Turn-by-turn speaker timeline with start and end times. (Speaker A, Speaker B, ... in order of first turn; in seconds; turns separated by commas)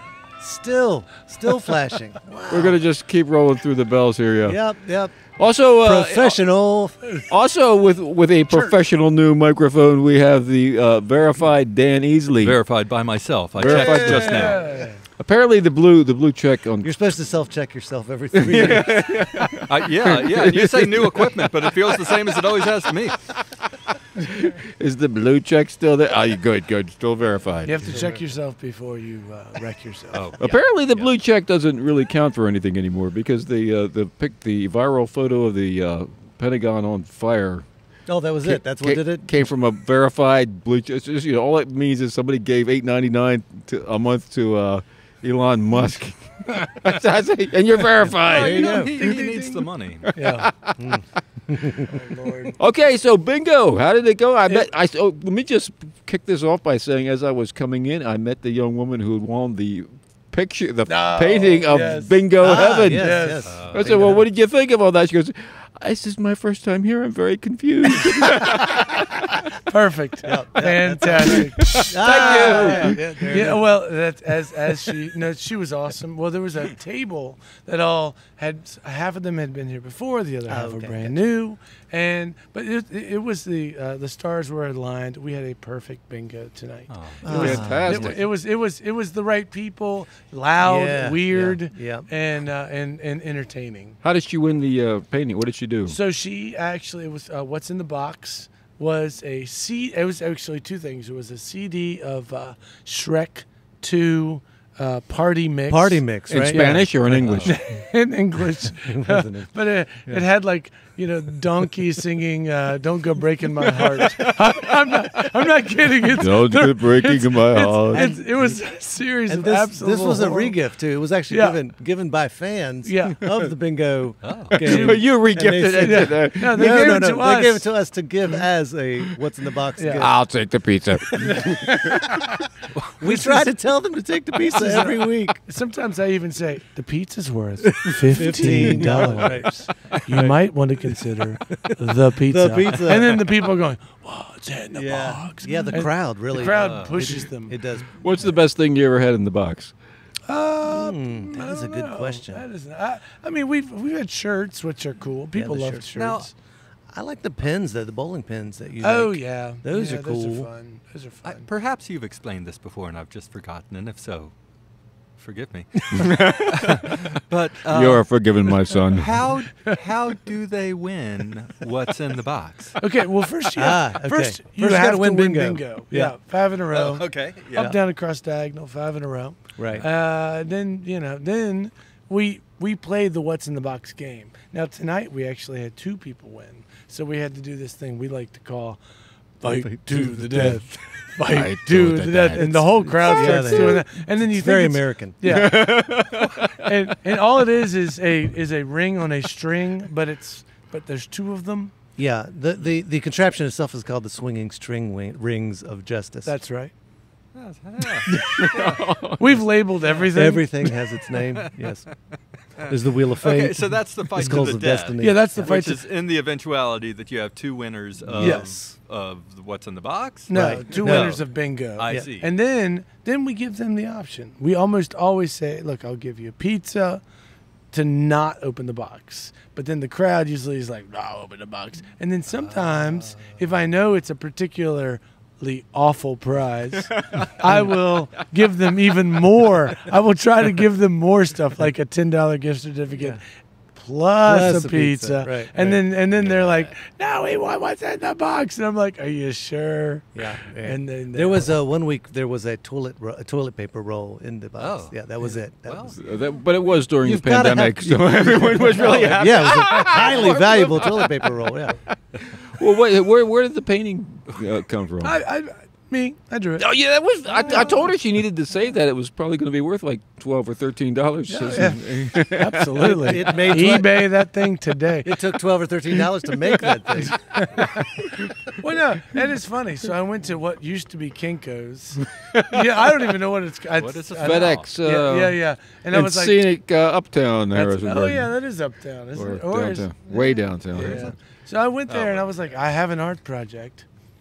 Speaker A: 0.4-2.8, Speaker B: 2.5-4.6, Speaker A: 4.4-7.2, Speaker B: 5.3-6.4, Speaker B: 7.3-12.6, Speaker C: 12.4-14.8, Speaker B: 13.6-14.6, Speaker A: 13.6-14.7, Speaker D: 14.1-15.0, Speaker B: 15.2-16.9, Speaker A: 16.8-19.2, Speaker B: 18.3-22.1, Speaker C: 19.7-23.2, Speaker B: 24.2-28.0, Speaker D: 27.6-30.2, Speaker A: 27.9-28.2, Speaker C: 30.1-31.1, Speaker B: 30.4-37.7, Speaker A: 38.1-39.3, Speaker B: 38.4-48.9, Speaker C: 48.2-50.1, Speaker A: 48.3-49.0, Speaker D: 48.9-50.5, Speaker B: 50.1-50.8, Speaker A: 50.8-52.5, Speaker D: 51.9-52.5, Speaker B: 52.6-69.5, Speaker D: 60.9-63.5, Speaker A: 62.4-64.2, Speaker C: 63.5-64.1, Speaker D: 69.7-94.0, Speaker A: 70.2-73.7, Speaker B: 71.8-73.0, Speaker A: 80.5-81.2, Speaker C: 86.9-87.7, Speaker A: 87.2-88.1, Speaker B: 87.3-88.2, Speaker A: 90.6-92.1, Speaker B: 94.0-96.0, Speaker D: 95.8-106.8, Speaker A: 105.7-107.6, Speaker B: 106.3-107.5, Speaker D: 107.4-120.6, Speaker A: 108.6-109.5, Speaker B: 113.8-114.3, Speaker B: 116.1-118.1, Speaker A: 117.9-118.6, Speaker A: 119.3-130.2, Speaker D: 121.3-121.6, Speaker D: 122.8-123.2, Speaker C: 124.2-124.6, Speaker B: 124.5-127.0, Speaker D: 124.6-125.0, Speaker D: 125.8-127.7, Speaker D: 129.8-130.1, Speaker B: 129.9-132.1, Speaker A: 131.2-132.4, Speaker A: 133.0-135.4, Speaker D: 133.1-133.4, Speaker D: 134.5-147.6, Speaker A: 138.1-140.4, Speaker B: 138.2-139.0, Speaker A: 141.5-143.2, Speaker A: 144.7-148.3, Speaker C: 146.5-147.0, Speaker B: 148.0-149.7, Speaker D: 150.3-156.3, Speaker A: 150.6-152.4, Speaker A: 155.3-155.9, Speaker C: 155.9-156.3, Speaker A: 156.9-160.5, Speaker D: 158.8-161.5, Speaker C: 161.2-164.3, Speaker C: 165.2-172.8, Speaker B: 165.9-167.0, Speaker B: 167.7-169.2, Speaker D: 172.8-188.8, Speaker A: 173.6-176.1, Speaker C: 176.7-177.7, Speaker A: 179.6-179.8, Speaker D: 189.4-196.1, Speaker A: 189.5-190.6, Speaker B: 191.2-193.8, Speaker A: 192.4-195.5, Speaker B: 195.2-196.7, Speaker D: 196.6-201.7, Speaker A: 202.0-206.3, Speaker D: 206.2-206.7, Speaker C: 207.3-208.9, Speaker B: 207.8-209.4, Speaker D: 209.2-210.6, Speaker A: 210.1-211.9, Speaker C: 211.1-211.8, Speaker C: 212.6-222.3, Speaker A: 212.6-215.4, Speaker D: 215.0-215.8, Speaker A: 218.0-218.7, Speaker D: 218.2-218.5, Speaker D: 220.3-227.0, Speaker A: 220.3-221.2, Speaker D: 227.7-243.2, Speaker B: 236.9-237.3, Speaker D: 243.7-251.5, Speaker A: 244.2-245.8, Speaker C: 246.2-246.7, Speaker A: 250.1-255.9, Speaker C: 254.6-255.0, Speaker C: 255.6-256.0, Speaker B: 255.9-261.3, Speaker A: 257.0-261.8, Speaker B: 262.3-265.2, Speaker D: 265.0-266.6, Speaker B: 266.6-273.8, Speaker C: 267.3-267.8, Speaker D: 271.3-275.2, Speaker A: 272.8-274.1, Speaker A: 275.0-277.4, Speaker D: 277.0-286.5, Speaker C: 283.7-284.7, Speaker B: 284.2-285.4, Speaker B: 285.9-288.3, Speaker D: 287.5-293.9, Speaker B: 289.1-291.1, Speaker C: 290.7-291.1, Speaker C: 291.9-292.2